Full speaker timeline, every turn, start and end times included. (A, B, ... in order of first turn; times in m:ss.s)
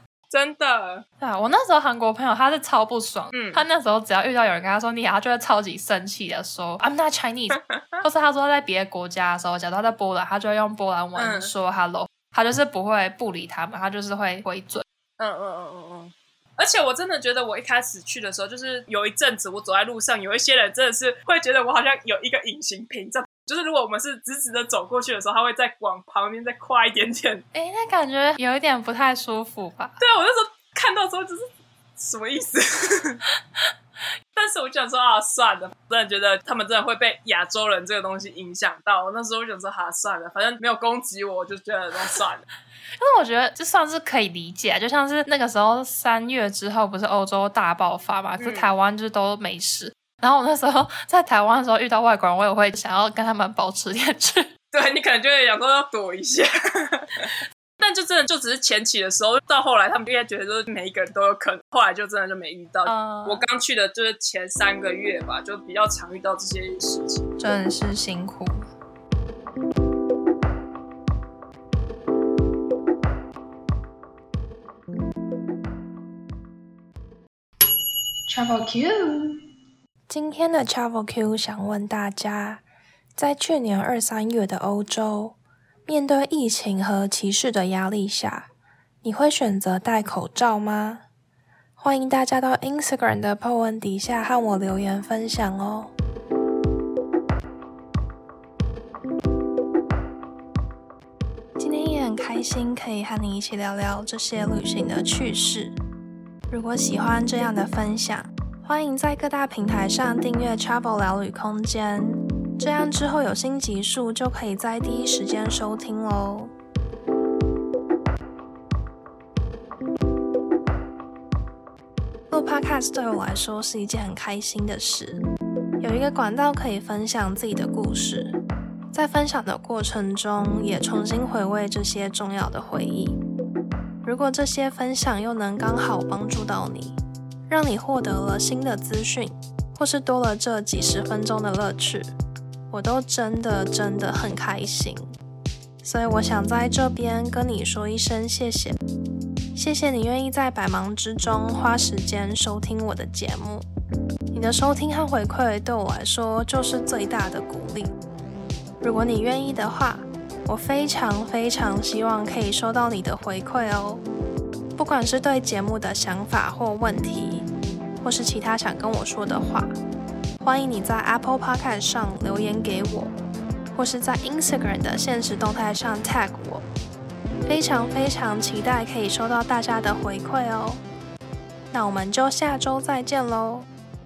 0:00.3-0:01.0 A
0:01.2-0:14.8 B
0:03.3-0:03.6 A
0:07.6-0:08.0 A
0:11.2-0:11.5 A
0:15.2-0:27.4 A
0:27.5-0:30.0 B
0:30.0-0:31.4 A
0:32.0-0:33.2 A
0:34.4-0:42.4 A
0:43.0-0:54.5 B
0:48.4-0:48.7 A
0:54.7-1:07.2 A
1:02.8-1:03.4 B
1:07.4-1:08.6 B
1:18.3-1:19.2 B
1:20.1-1:22.6 C
1:23.2-1:28.5 C
1:29.0-1:31.0 C
1:31.8-1:35.9 C
1:41.6-1:45.8 C
1:46.5-1:56.5 C
2:02.3-2:05.2 C
2:05.8-2:08.4 C
2:08.9-2:13.2 C
2:14.0-2:22.1 C
2:22.7-2:25.1 C
2:25.8-2:28.8 C
2:29.5-2:33.6 C
2:34.3-2:37.9 C
2:38.8-2:44.0 C
2:44.8-2:47.5 C
2:48.0-2:49.7 C
2:50.4-2:53.1 C
2:53.7-2:56.6 C
2:57.4-3:00.8 C
3:01.7-3:03.7 C